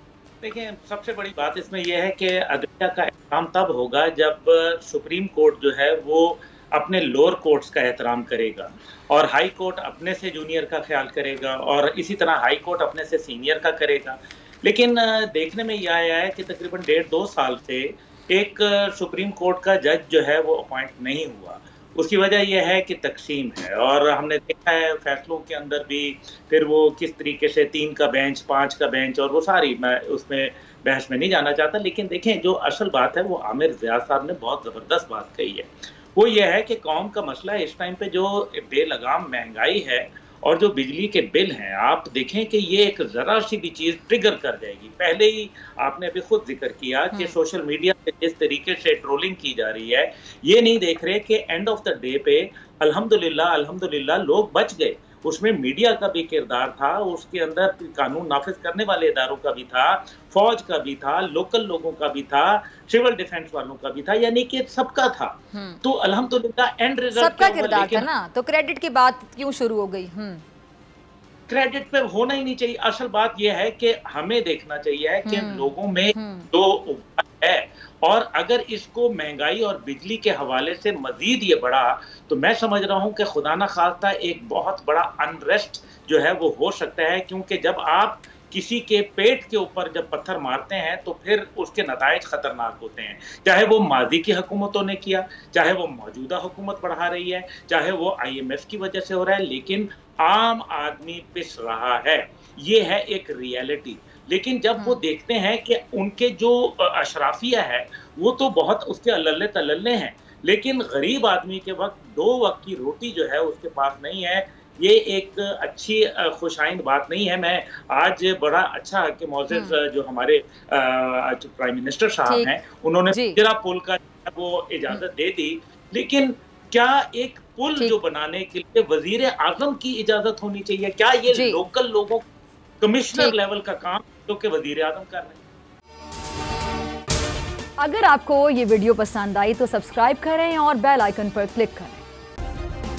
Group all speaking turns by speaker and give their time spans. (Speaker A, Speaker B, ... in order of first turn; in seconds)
Speaker A: 0.4-68.1, 71.5-132.2, 132.8-135.4
Speaker B: 65.5-65.8, 67.1-70.4, 75.2-76.5, 119.5-119.8, 122.3-122.5, 123.1-123.4, 131.3-131.6, 137.8-142.0